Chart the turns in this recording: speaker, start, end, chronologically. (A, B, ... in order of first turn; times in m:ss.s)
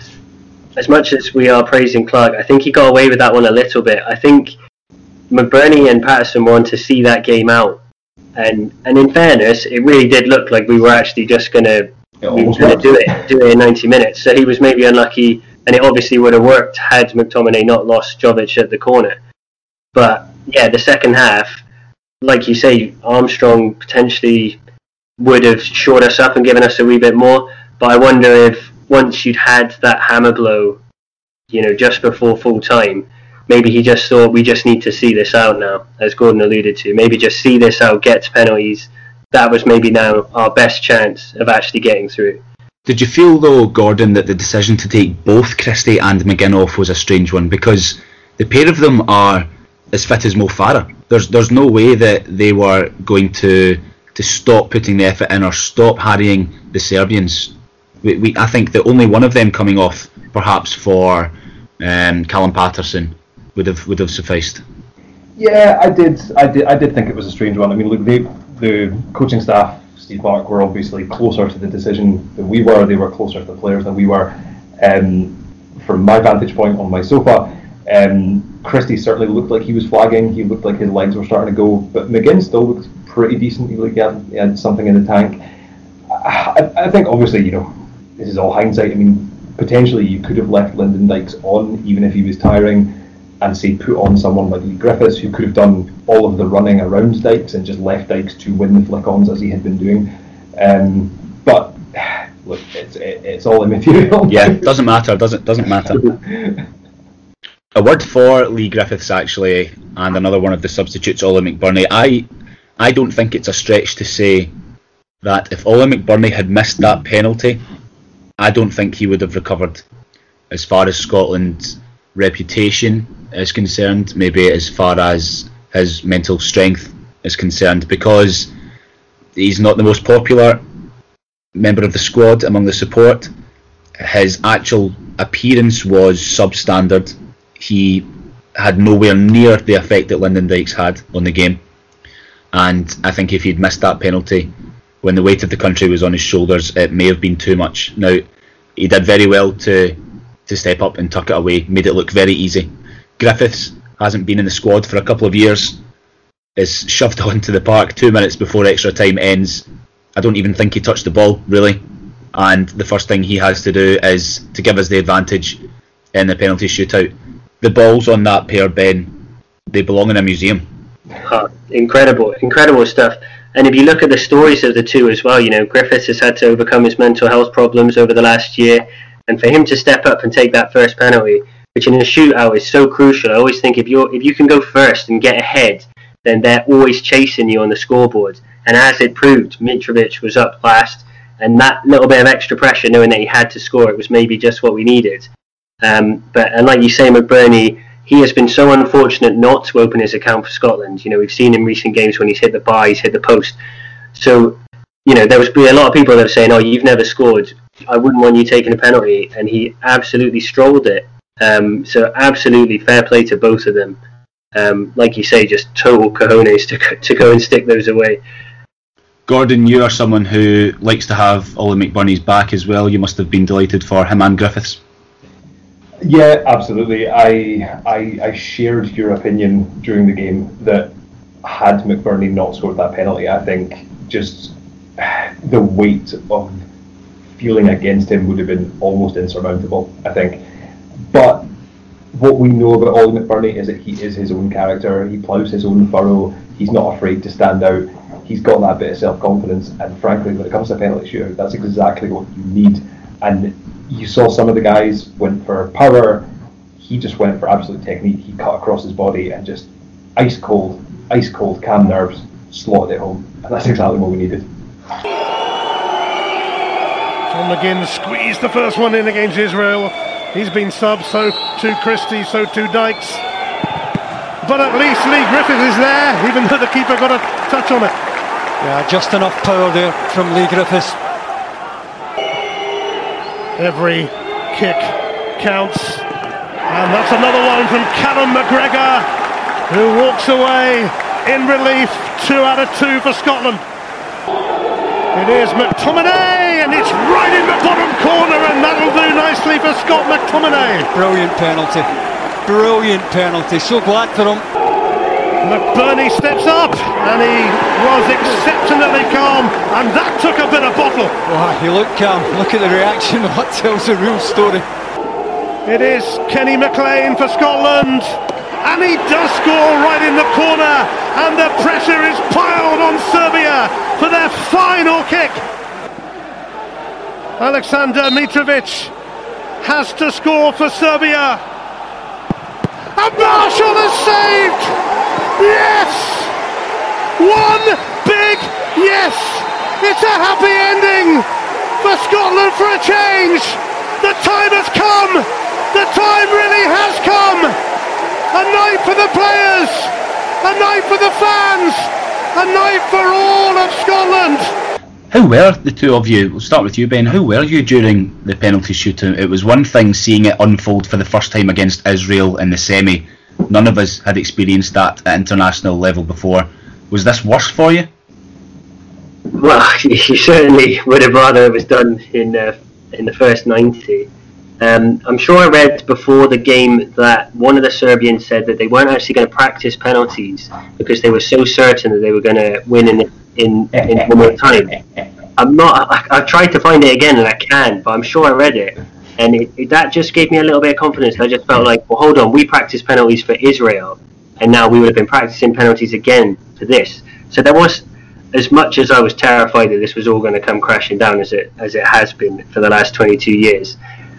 0:00.8-0:04.5 A
0:05.3-0:07.8 A
0:08.4-0:19.2 A
0:12.2-0:13.1 B
0:19.9-0:21.6 A
0:22.2-0:24.6 A
0:25.2-0:30.8 A
0:31.5-0:42.4 A
0:42.8-1:04.6 C
1:05.4-1:25.4 B
1:26.1-1:44.7 B
1:44.3-1:46.1 C
1:46.0-1:46.6 B
1:47.7-1:52.3 C
1:52.8-1:54.5 C
1:55.2-1:57.6 C
1:58.4-1:59.8 C
2:00.5-2:08.5 C
2:09.4-2:10.6 C
2:11.5-2:13.3 C
2:14.0-2:21.6 C
2:22.5-2:24.5 C
2:25.0-2:28.2 C
2:28.8-2:35.8 C
2:36.6-2:41.8 C
2:42.3-2:45.6 C
2:46.1-2:49.1 C
2:49.7-2:50.6 C
2:51.2-3:15.3 A
3:15.8-3:23.6 A
3:24.1-3:34.0 A
3:34.5-3:38.2 A
3:39.3-3:44.8 C
3:46.0-3:56.6 B
3:57.4-4:00.4 B
4:01.1-4:01.5 B
4:02.1-4:24.4 B
4:27.3-4:33.2 D
4:34.4-4:37.9 D
4:38.6-4:41.0 E
4:43.6-4:46.0 D
4:46.7-4:49.1 D
4:49.7-4:53.6 D
4:55.1-5:00.9 D
5:00.9-5:01.9 E
5:02.4-5:04.4 E
5:05.4-5:11.2 D
5:11.2-5:14.7 E
5:15.6-5:25.4 D
5:27.4-5:28.9 D
5:29.6-5:31.4 D
5:33.0-5:34.8 D
5:35.4-5:36.3 D
5:37.2-5:41.3 D
5:41.8-5:47.6 D
5:48.3-5:54.5 D
5:55.1-6:07.9 C
6:09.3-6:14.1 A
6:14.6-6:24.8 A
6:25.4-6:43.8 A